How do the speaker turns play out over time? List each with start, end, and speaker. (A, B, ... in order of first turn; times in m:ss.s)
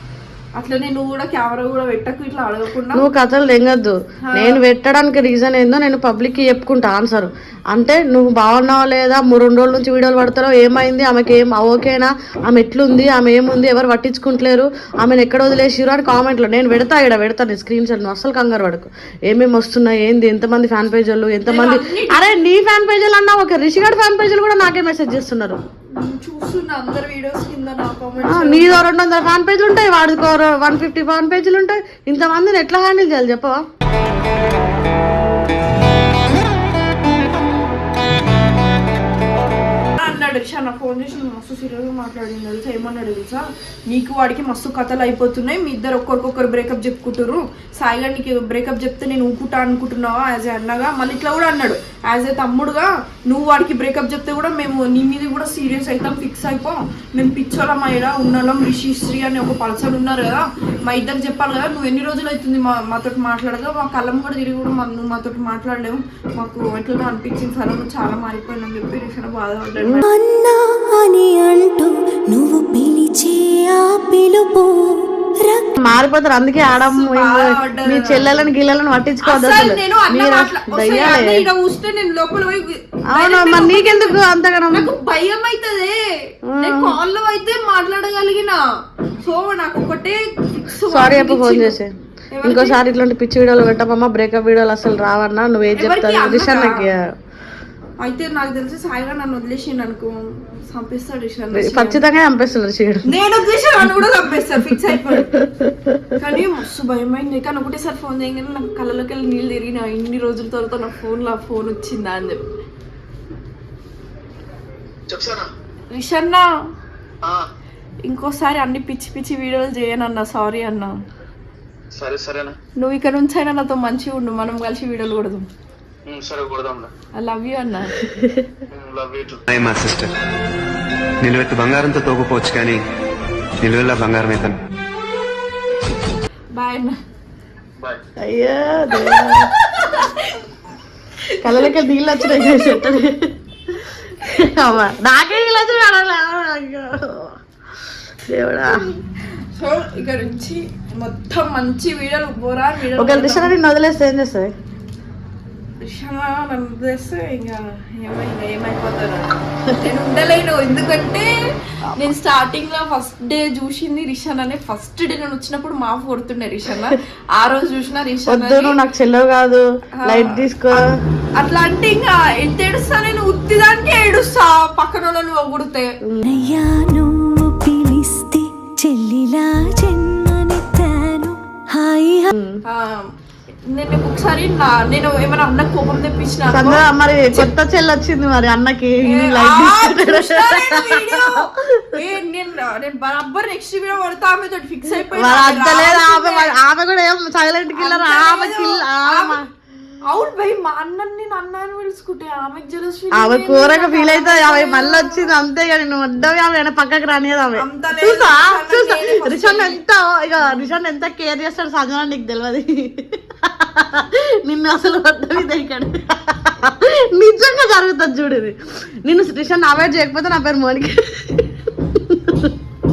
0:00.6-0:03.1 A
0:02.9-0:25.6 B
0:04.3-0:04.6 A
0:21.5-0:22.3 A
0:25.9-0:28.8 A
0:28.3-0:33.6 B
0:40.0-1:10.0 A
1:10.1-1:15.7 C
1:15.8-1:21.5 B
1:16.8-1:18.4 A
1:19.2-1:24.2 A
1:23.1-1:24.9 B
1:24.7-1:28.6 A
1:26.5-1:27.0 B
1:29.2-1:31.8 A
1:30.9-1:31.9 B
1:32.3-1:32.8 A
1:32.4-1:37.0 B
1:35.8-1:36.9 A
1:38.0-1:42.0 A
1:41.5-1:43.1 B
1:43.1-1:45.4 A
1:45.1-1:46.2 B
1:46.2-1:52.4 A
1:55.1-1:55.5 D
1:55.9-1:56.4 A
1:58.0-2:01.0 A
2:01.9-2:02.6 D
2:02.8-2:05.5 A
2:06.1-2:06.9 D
2:07.2-2:08.0 A
2:08.1-2:08.5 B
2:08.7-2:09.4 D
2:09.5-2:10.1 E
2:11.2-2:12.8 E
2:13.6-2:14.6 E
2:16.6-2:17.0 A
2:18.2-2:19.5 B
2:18.9-2:20.5 A
2:21.4-2:23.0 A
2:21.4-2:27.4 B
2:28.3-2:28.8 B
2:28.7-2:29.0 A
2:29.6-2:33.5 A
2:33.0-2:34.5 B
2:35.8-2:41.3 A
2:42.0-2:48.8 A
2:48.3-2:50.8 B
2:50.0-2:50.8 A
2:51.4-2:55.9 A
2:56.2-3:02.3 C
3:02.3-3:02.6 B
3:02.7-3:03.1 A
3:03.7-3:07.5 A
3:06.5-3:12.0 B
3:09.0-3:16.6 A
3:15.1-3:19.4 B
3:17.7-3:19.4 A
3:20.1-3:25.3 A
3:23.1-3:42.6 B
3:27.6-3:29.8 A
3:30.4-3:30.7 A